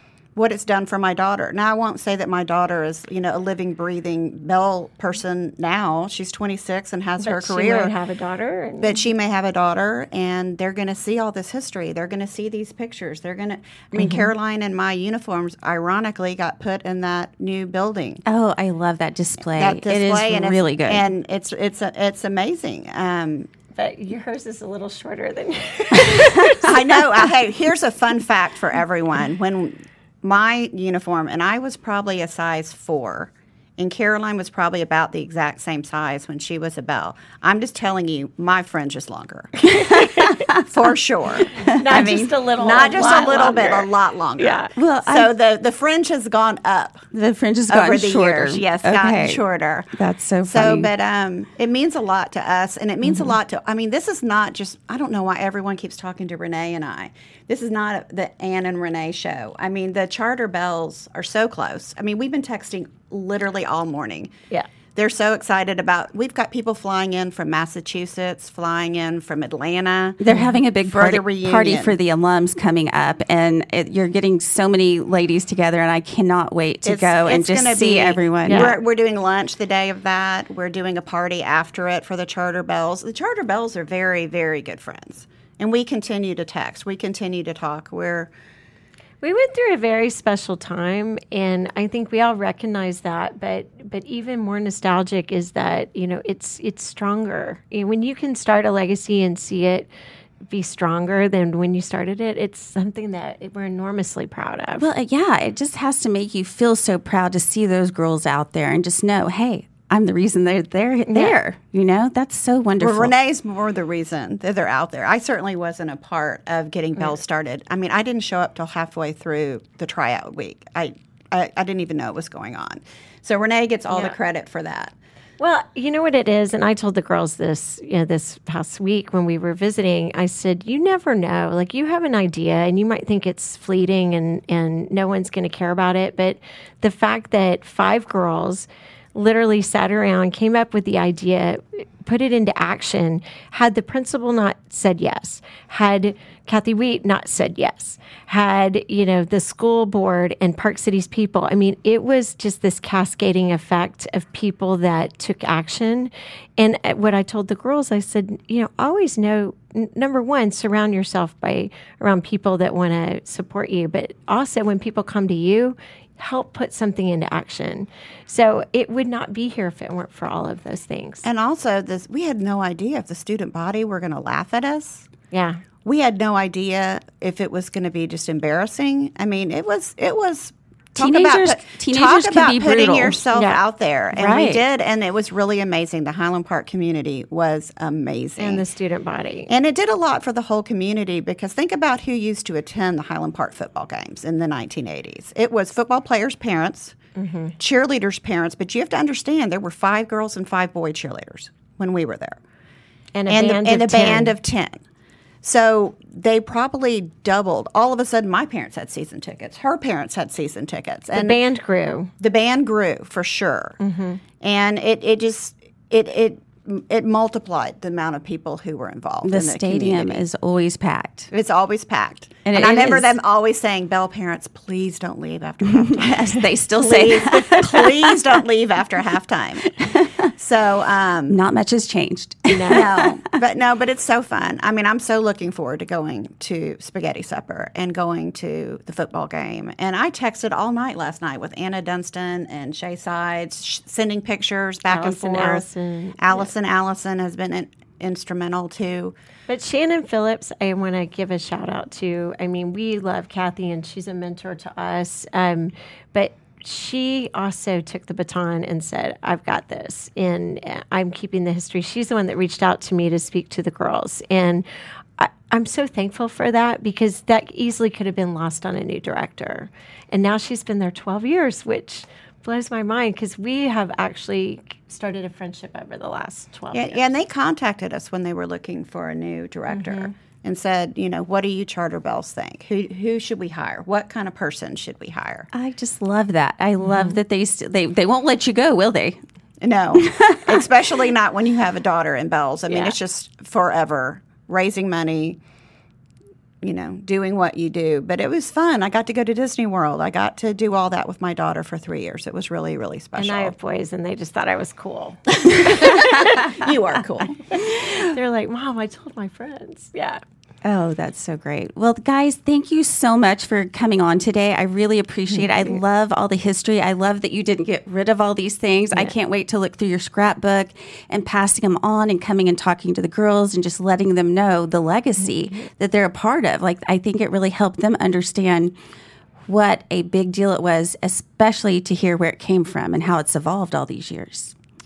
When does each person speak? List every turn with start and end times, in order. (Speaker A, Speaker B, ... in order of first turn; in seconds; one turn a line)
Speaker A: 0.4-7.9
Speaker B: 7.2-9.0
Speaker A: 8.8-18.2
Speaker B: 13.9-14.3
Speaker C: 18.3-21.1
Speaker A: 19.6-23.5
Speaker B: 23.7-27.0
Speaker C: 26.0-26.8
Speaker A: 26.6-39.8
Speaker C: 39.7-40.7
Speaker B: 40.0-40.4
Speaker A: 40.6-47.1
Speaker C: 41.5-42.1
Speaker B: 41.5-44.7
Speaker C: 44.8-45.3
Speaker C: 47.1-49.4
Speaker A: 47.7-64.3
Speaker C: 49.9-50.9
Speaker B: 53.0-53.3
Speaker A: 64.9-70.2
Speaker C: 70.2-78.7
Speaker B: 70.3-70.6
Speaker A: 70.9-72.0
Speaker A: 76.8-88.3
Speaker B: 78.5-78.8
Speaker B: 89.2-99.9
Speaker B: 100.5-104.9
Speaker C: 104.8-113.1
Speaker B: 111.1-111.4
Speaker A: 112.8-124.9
Speaker B: 125.4-171.2
Speaker A: 171.2-175.1
Speaker B: 175.3-175.6
Speaker A: 175.8-188.7
Speaker C: 181.0-183.2
Speaker B: 183.3-183.6
Speaker C: 184.1-184.6
Speaker B: 188.4-189.5
Speaker A: 189.5-197.0
Speaker B: 197.2-197.6
Speaker A: 197.6-202.4
Speaker B: 203.1-204.3
Speaker A: 203.3-204.8
Speaker A: 205.4-211.4
Speaker B: 211.1-212.1
Speaker A: 212.2-213.8
Speaker B: 213.8-214.2
Speaker A: 214.4-220.2
Speaker C: 219.2-221.3
Speaker A: 221.3-229.7
Speaker C: 222.4-223.1
Speaker C: 225.6-228.4
Speaker C: 229.8-230.3
Speaker A: 230.3-231.4
Speaker C: 231.3-233.3
Speaker B: 232.5-232.9
Speaker A: 232.7-245.7
Speaker B: 244.9-246.5
Speaker A: 246.2-249.1
Speaker B: 249.5-264.6
Speaker B: 265.2-277.1
Speaker A: 276.7-285.5
Speaker B: 279.7-280.1
Speaker C: 285.5-289.2
Speaker B: 286.9-287.1
Speaker A: 289.6-295.4
Speaker C: 290.0-290.6
Speaker B: 292.7-292.9
Speaker A: 296.6-303.5
Speaker B: 303.2-306.5
Speaker A: 305.5-307.4
Speaker C: 305.6-306.5
Speaker B: 307.6-310.2
Speaker C: 310.6-328.7
Speaker B: 315.3-315.8
Speaker B: 325.2-325.7
Speaker C: 329.5-334.5